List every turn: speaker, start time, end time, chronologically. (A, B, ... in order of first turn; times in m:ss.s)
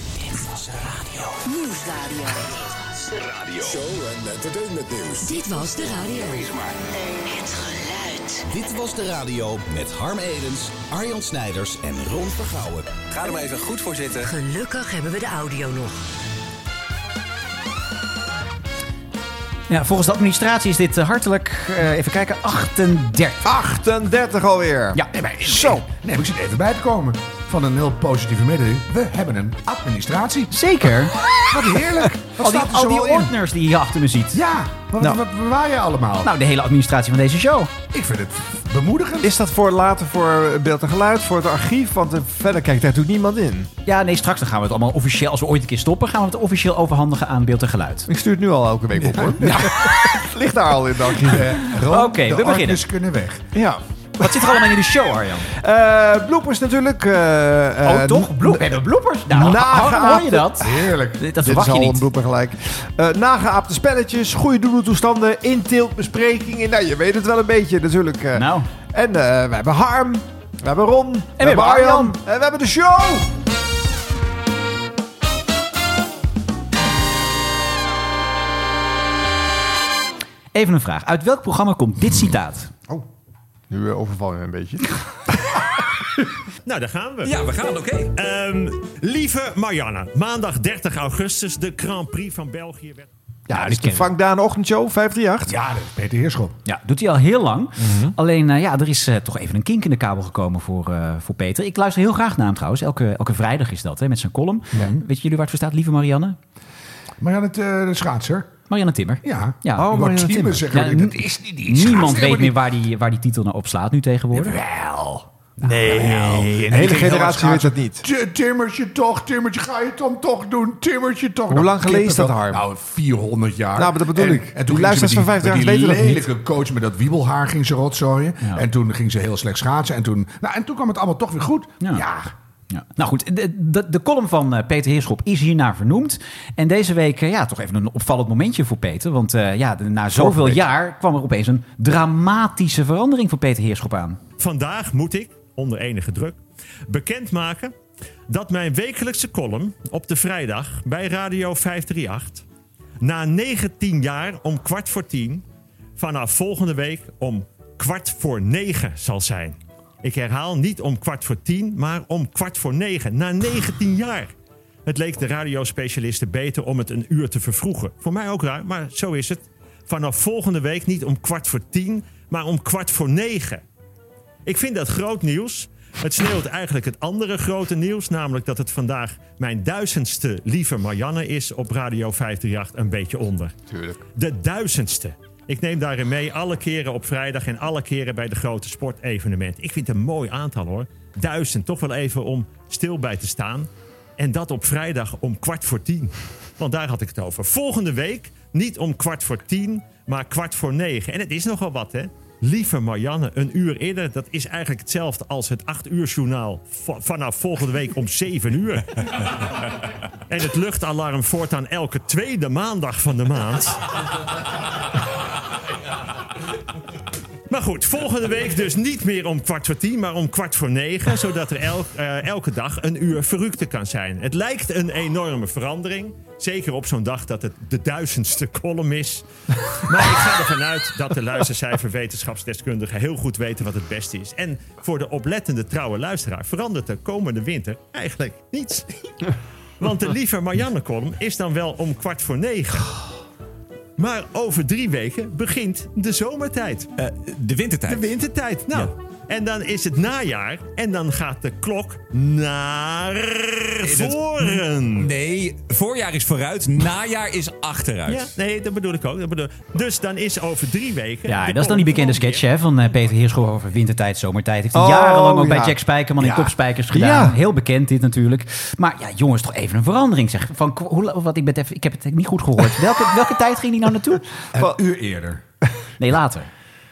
0:01.4-0:02.4 A
0:03.2-0:03.8 B
0:05.2-0:06.4 A
0:07.2-0:08.4 A
0:08.5-0:12.9 B
0:13.1-0:14.3 C
0:14.2-0:16.0 A
0:19.7-0:23.4 D
0:23.4-0:25.8 E
0:25.1-0:30.5 F
0:30.5-0:31.1 D
0:31.5-0:33.3 F
0:32.4-0:34.4 D
0:34.3-0:36.3 F
0:36.2-0:37.7 D
0:37.9-0:39.3 F
0:39.2-0:43.7 E
0:43.8-0:48.1 D
0:48.1-0:51.6 E
0:49.1-0:49.7 F
0:49.4-0:49.7 D
0:51.2-0:53.4 F
0:51.9-0:52.8 D
0:53.6-0:53.8 E
0:54.2-0:55.5 D
0:55.5-0:58.7 E
0:57.8-1:02.0 D
0:59.3-1:00.5 E
1:00.6-1:01.2 F
1:01.4-1:13.3 E
1:08.4-1:08.7 D
1:11.4-1:12.2 D
1:20.5-1:22.7 D
1:23.7-1:25.0 E
1:26.6-1:27.4 G
1:27.3-1:28.0 C
1:28.1-1:33.1 G
1:33.5-1:35.5 E
1:33.5-1:34.1 D
1:35.5-1:36.6 F
1:36.6-1:46.4 D
1:37.8-1:38.2 E
1:44.7-1:45.0 F
1:47.2-1:48.5 F
1:48.7-1:54.6 D
1:49.2-1:52.6 F
1:49.8-1:50.6 E
1:54.3-2:12.3 F
1:55.6-1:58.1 E
2:01.5-2:02.6 E
2:03.8-2:06.3 E
2:12.7-2:24.2 D
2:20.2-2:20.6 F
2:24.4-2:27.7 G
2:28.3-2:32.4 G
2:33.0-2:35.4 G
2:36.0-2:44.3 G
2:44.9-2:53.6 G
2:54.5-3:03.5 G
3:03.7-3:04.0 E
3:04.2-3:28.9 G
3:30.3-3:33.8 G
3:37.5-3:49.2 G
3:49.8-3:59.3 G
3:59.8-4:02.9 G
4:04.0-4:06.9 G
4:07.0-4:08.1 C
4:07.9-4:15.1 G
4:13.8-4:18.3 C
4:18.1-4:22.4 G
4:21.3-4:34.2 D
4:24.8-4:25.8 E
4:26.2-4:26.5 F
4:26.9-4:27.4 E
4:34.5-4:35.4 F
4:36.0-4:36.5 D